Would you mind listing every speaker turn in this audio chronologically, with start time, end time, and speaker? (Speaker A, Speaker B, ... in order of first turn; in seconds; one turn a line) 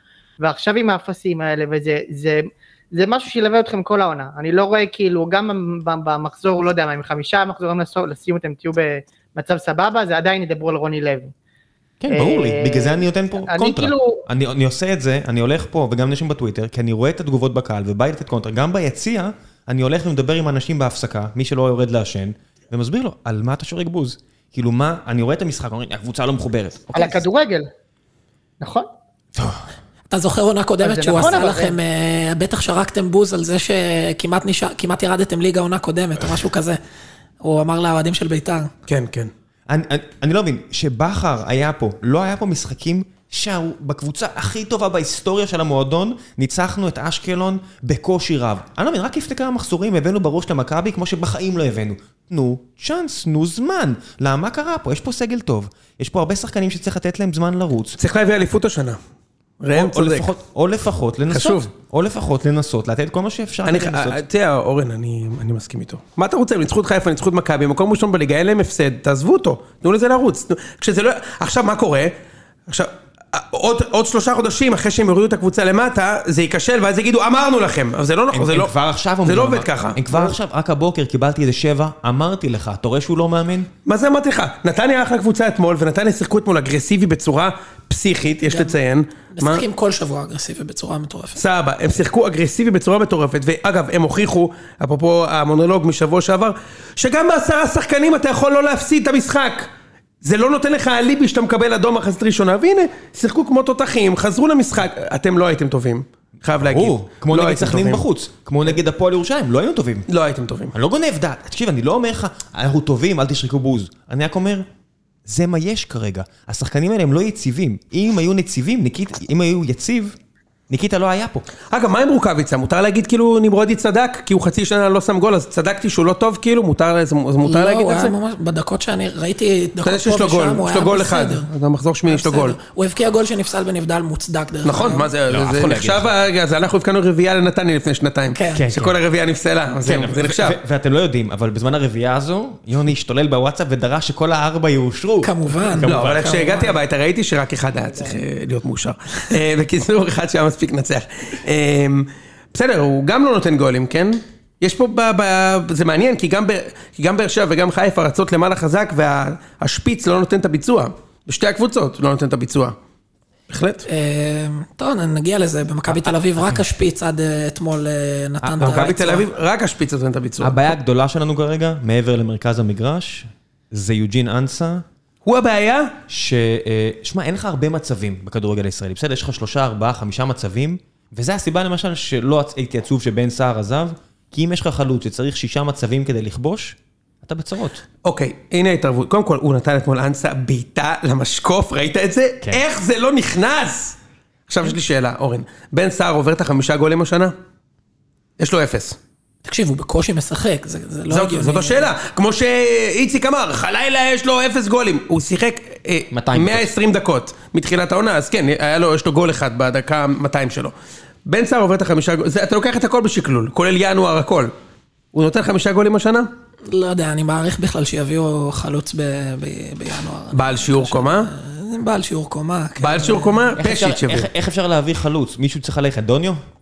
Speaker A: 0.4-11.3
Speaker B: 12.0-27.2
Speaker A: 12.1-14.2
Speaker A: 26.9-27.7
Speaker A: 28.6-28.9
Speaker B: 29.4-29.6
Speaker C: 30.1-36.8
Speaker A: 30.8-31.8
Speaker C: 37.4-38.7
Speaker D: 38.9-39.3
Speaker B: 39.7-58.0
Speaker D: 58.0-59.0
Speaker D: 59.6-60.3
Speaker B: 59.7-64.2
Speaker D: 61.3-61.7
Speaker D: 63.6-72.1
Speaker D: 72.7-80.3
Speaker B: 78.3-83.7
Speaker D: 83.8-89.6
Speaker C: 88.5-88.7
Speaker C: 89.3-91.4
Speaker D: 91.3-99.7
Speaker D: 100.2-108.0
Speaker B: 106.6-110.1
Speaker D: 110.1-110.7
Speaker B: 110.7-114.6
Speaker B: 115.2-120.2
Speaker B: 120.7-121.5
Speaker D: 121.7-128.1
Speaker C: 127.4-131.5
Speaker D: 129.8-132.6
Speaker C: 132.1-135.1
Speaker D: 134.6-140.6
Speaker B: 135.3-136.1
Speaker C: 138.3-138.6
Speaker B: 138.5-139.0
Speaker B: 139.8-146.3
Speaker C: 145.2-146.8
Speaker D: 145.8-162.8
Speaker D: 163.5-163.8
Speaker C: 163.8-169.2
Speaker B: 168.4-169.2
Speaker D: 168.6-170.6
Speaker B: 170.4-174.8
Speaker D: 175.2-175.9
Speaker B: 176.1-187.8
Speaker D: 188.0-194.0
Speaker D: 194.5-197.3
Speaker D: 198.4-199.0
Speaker C: 199.4-201.9
Speaker D: 201.1-210.7
Speaker B: 206.1-206.7
Speaker D: 211.2-214.5
Speaker D: 215.1-216.3
Speaker C: 216.7-223.5
Speaker D: 220.3-221.3
Speaker D: 222.8-224.3
Speaker B: 223.6-226.4